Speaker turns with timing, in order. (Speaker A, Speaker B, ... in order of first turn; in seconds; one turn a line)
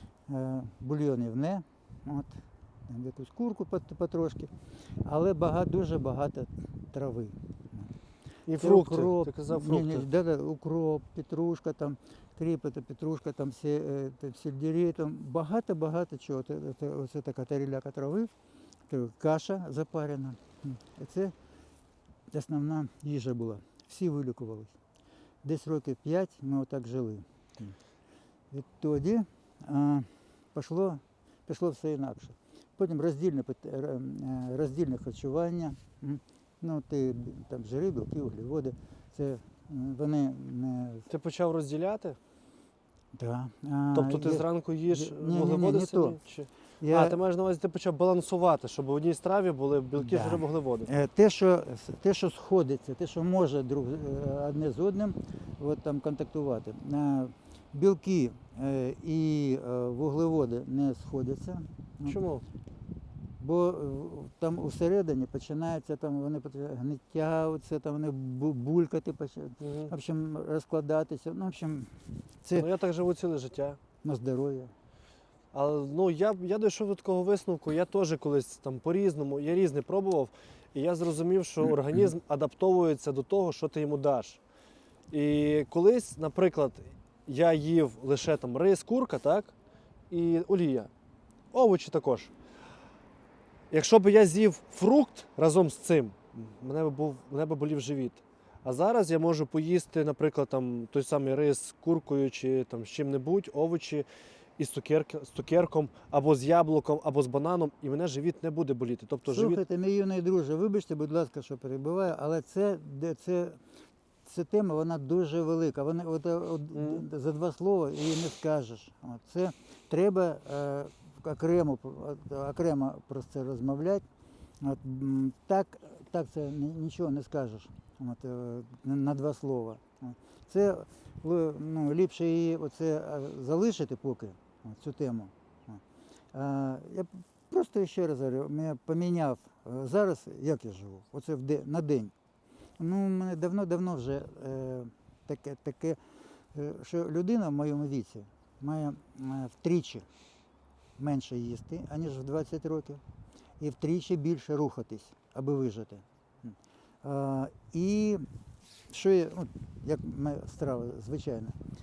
Speaker A: 0.3-4.5
Speaker A: 5.0-7.9
Speaker B: 8.5-10.1
Speaker A: 8.6-18.3
Speaker A: 18.9-21.3
Speaker A: 22.3-24.7
Speaker A: 25.4-27.8
Speaker A: 28.5-41.1
Speaker B: 41.1-42.2
Speaker A: 43.1-46.2
Speaker B: 43.9-50.9
Speaker A: 46.8-47.2
Speaker A: 50.0-62.2
Speaker B: 62.1-62.4
Speaker A: 63.4-72.7
Speaker B: 69.6-69.9
Speaker B: 72.5-73.8
Speaker A: 74.0-74.7
Speaker B: 75.5-84.4
Speaker B: 85.1-89.5
Speaker B: 90.1-90.9
Speaker B: 91.5-92.3
Speaker B: 93.7-104.0
Speaker B: 104.6-109.6
Speaker A: 109.3-113.6
Speaker A: 114.2-124.0
Speaker B: 116.8-117.0
Speaker A: 124.6-135.8
Speaker A: 136.3-142.1
Speaker A: 142.8-146.0
Speaker A: 146.5-150.1
Speaker A: 151.0-153.0
Speaker A: 153.6-158.3
Speaker A: 158.9-161.6